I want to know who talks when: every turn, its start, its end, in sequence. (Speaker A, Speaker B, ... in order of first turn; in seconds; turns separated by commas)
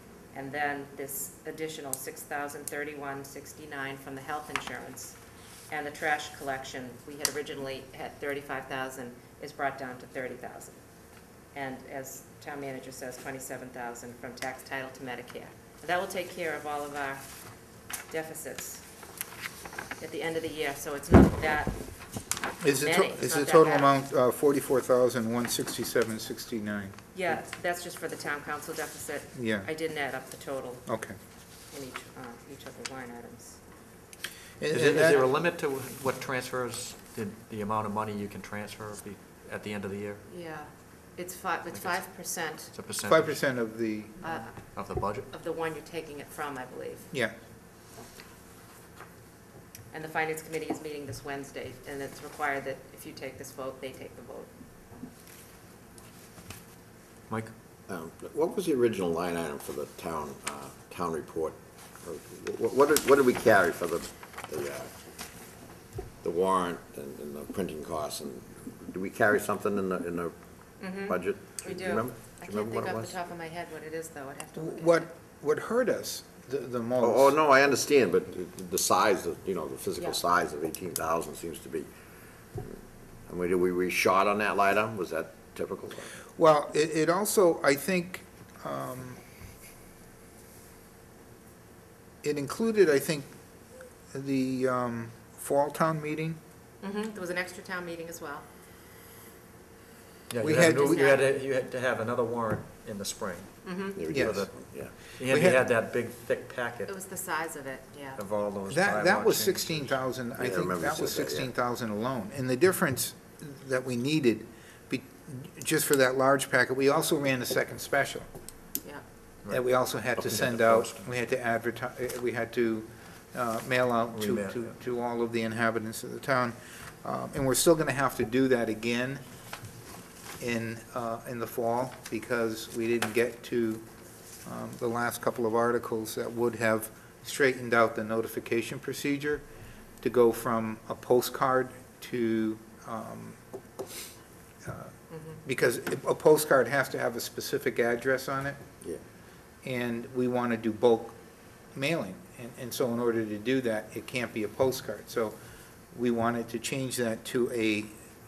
Speaker A: 0.3-5.2, Speaker A: 5.7-10.8, Speaker A: 11.5-17.2, Speaker A: 18.1-18.8, Speaker A: 20.0-21.8, Speaker B: 22.6-26.9, Speaker A: 22.8-23.9, Speaker A: 27.1-30.8, Speaker B: 29.3-29.7, Speaker B: 30.9-31.1, Speaker A: 31.7-33.6, Speaker B: 34.6-35.3, Speaker C: 34.7-40.2, Speaker A: 40.3-42.7, Speaker C: 41.7-42.0, Speaker C: 42.7-43.5, Speaker B: 43.0-44.4, Speaker A: 44.2-47.1, Speaker C: 44.5-45.3, Speaker A: 49.9-54.5, Speaker D: 57.9-64.9, Speaker D: 66.2-70.4, Speaker A: 70.8-75.1, Speaker D: 71.0-73.2, Speaker B: 74.5-77.4, Speaker D: 77.0-81.9, Speaker D: 82.6-86.1, Speaker B: 86.3-89.2, Speaker B: 92.2-93.3, Speaker B: 94.1-96.4, Speaker A: 96.8-98.5, Speaker C: 100.3-103.5, Speaker B: 100.4-101.1, Speaker A: 100.7-101.2, Speaker A: 103.6-104.0, Speaker D: 103.9-104.9, Speaker B: 104.1-104.7, Speaker C: 104.1-106.9, Speaker B: 105.2-105.6, Speaker A: 106.9-108.2, Speaker C: 108.2-110.0, Speaker B: 108.7-118.2, Speaker D: 110.3-111.5, Speaker C: 119.4-121.0, Speaker B: 119.5-129.2, Speaker C: 124.1-124.7, Speaker B: 130.4-133.8, Speaker B: 134.4-139.4, Speaker B: 140.0-143.4, Speaker B: 144.6-148.6, Speaker A: 145.1-145.4, Speaker B: 149.6-151.2, Speaker B: 151.7-155.4, Speaker B: 155.9-157.9